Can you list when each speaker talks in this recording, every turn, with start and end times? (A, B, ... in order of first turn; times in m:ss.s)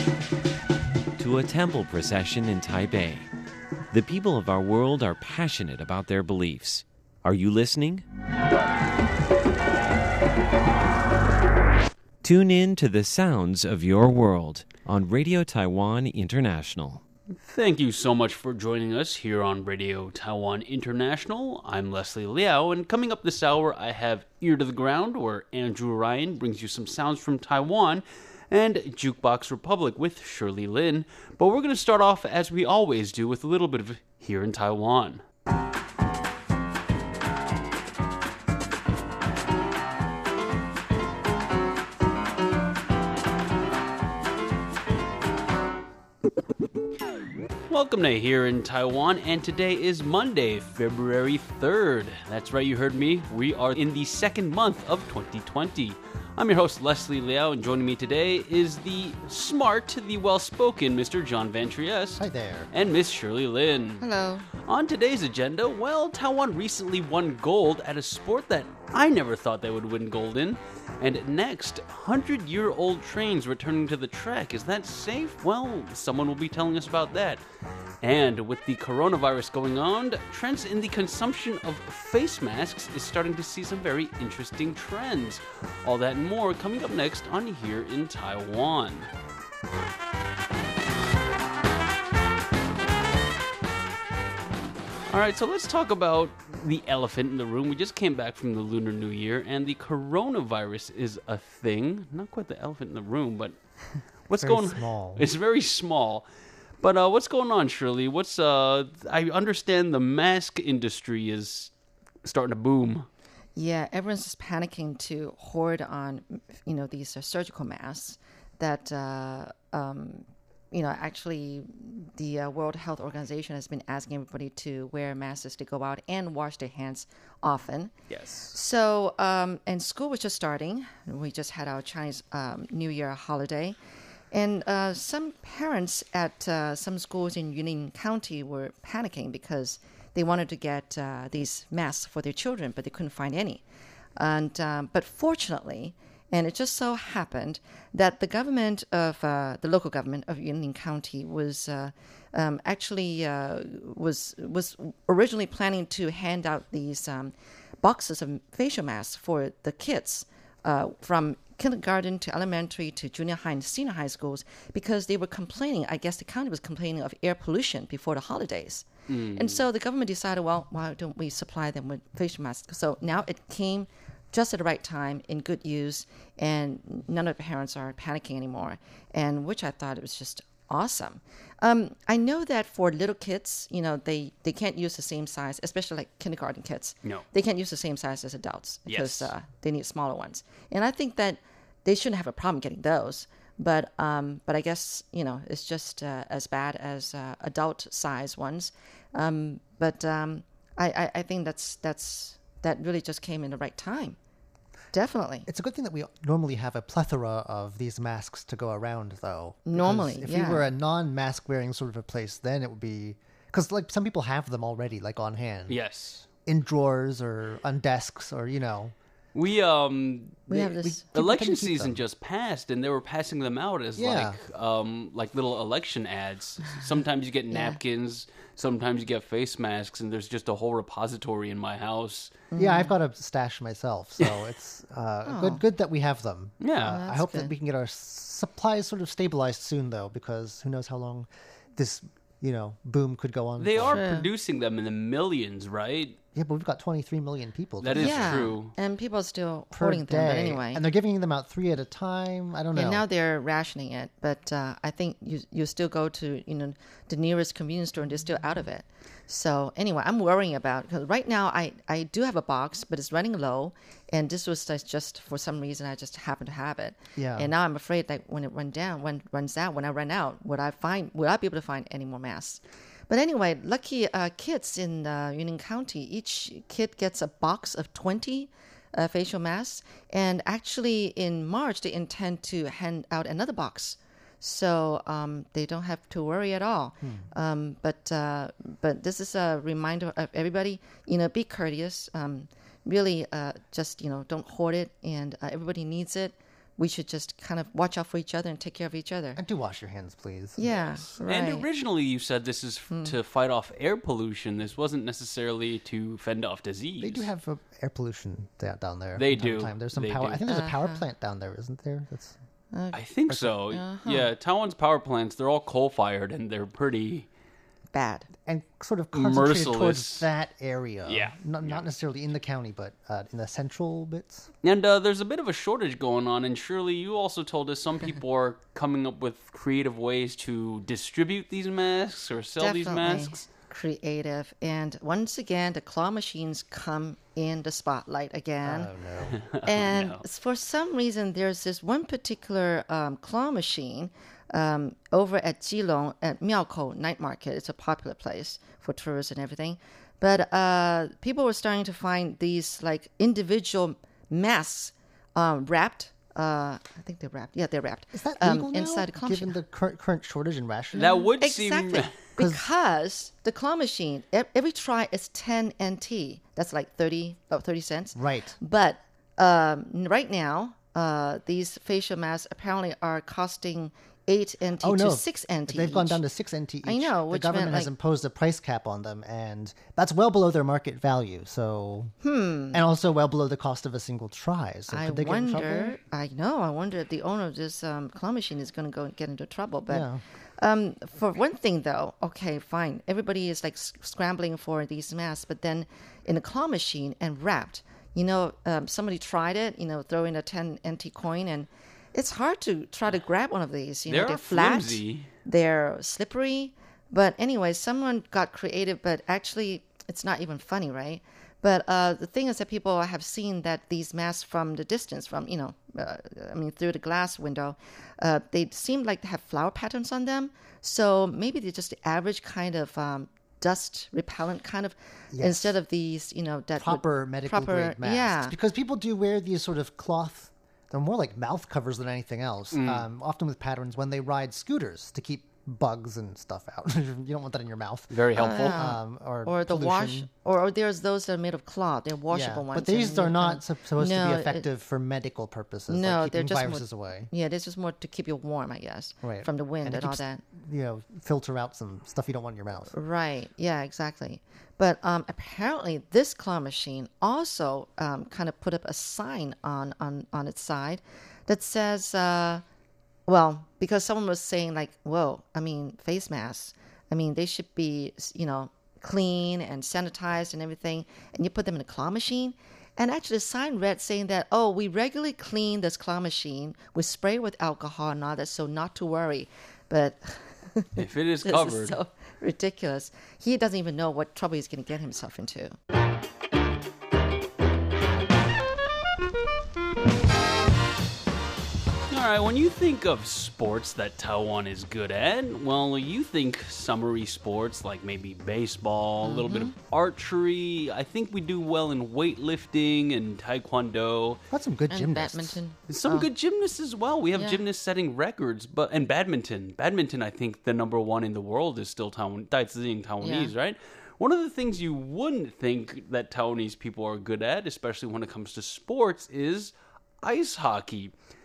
0:01.2-0:03.3 A
0:03.9-0:08.0 A
0:12.2-0:17.0 A
0:17.4-0:35.2 B
0:47.7-1:04.0 B
1:02.2-1:02.7 C
1:04.0-1:04.5 D
1:04.6-1:17.4 B
1:18.0-1:29.1 B
1:35.1-1:43.6 B
1:44.3-1:46.3 B
1:44.4-1:45.3 C
1:46.8-1:51.7 B
1:52.2-1:53.1 B
1:53.6-2:07.9 D
2:08.1-2:08.5 B
2:08.5-2:13.8 D
2:14.3-2:23.6 D
2:24.2-3:24.2 D
2:49.1-2:49.6 B
3:08.9-3:09.3 B
3:24.9-3:25.5 D
3:25.5-3:35.8 C
3:29.7-3:30.7 D
3:35.7-3:36.2 B
3:36.5-3:38.9 C
3:39.4-3:52.5 B
3:40.5-3:41.0 D
3:40.8-3:42.0 C
3:44.0-3:44.4 C
3:47.5-3:47.8 D
3:52.5-3:52.9 D
3:52.6-4:04.1 C
3:55.3-3:55.6 D
3:56.6-3:57.0 B
3:56.9-3:57.5 D
4:03.6-4:06.2 B
4:03.9-4:04.3 D
4:06.4-4:08.5 C
4:07.8-4:08.7 B
4:07.9-4:10.8 D
4:09.7-4:13.0 C
4:12.7-4:59.4 D
4:27.2-4:27.5 C
4:47.0-4:47.3 C
4:59.4-5:00.7 C
5:00.6-5:01.6 D
5:00.8-5:07.3 B
5:02.9-5:03.2 D
5:07.0-5:12.4 C
5:09.2-5:10.4 B
5:10.5-5:11.0 D
5:12.7-5:13.0 D
5:12.9-5:17.3 B
5:13.7-5:14.3 D
5:17.9-5:18.3 D
5:18.4-5:24.5 C
5:19.1-5:20.3 B
5:21.1-5:21.8 B
5:24.6-5:33.4 B
5:32.6-5:38.9 D
5:38.6-5:39.4 C
5:39.3-5:40.2 B
5:39.7-5:59.6 D
5:58.1-6:01.1 C
6:01.0-6:02.2 B
6:01.0-6:16.2 D
6:02.4-6:02.6 C
6:08.2-6:08.6 C
6:14.8-6:22.1 C
6:16.8-6:17.9 D
6:22.2-6:22.8 D
6:22.7-6:26.0 C
6:24.9-6:30.1 D
6:29.9-6:30.2 C
6:30.6-7:08.6 D
6:44.1-6:45.3 B
7:05.3-7:05.8 C
7:06.8-7:20.3 C
7:12.7-7:13.1 B
7:18.1-7:18.8 B
7:18.4-7:24.7 D
7:22.3-7:27.3 C
7:25.9-7:30.4 D
7:29.2-7:32.9 C
7:32.9-7:42.6 D
7:43.3-8:05.8 D
8:01.0-8:02.0 B
8:12.1-8:24.4 B
8:19.2-8:19.7 D
8:24.5-8:25.6 C
8:24.9-8:26.3 D
8:25.9-8:41.1 B
8:33.2-8:33.5 D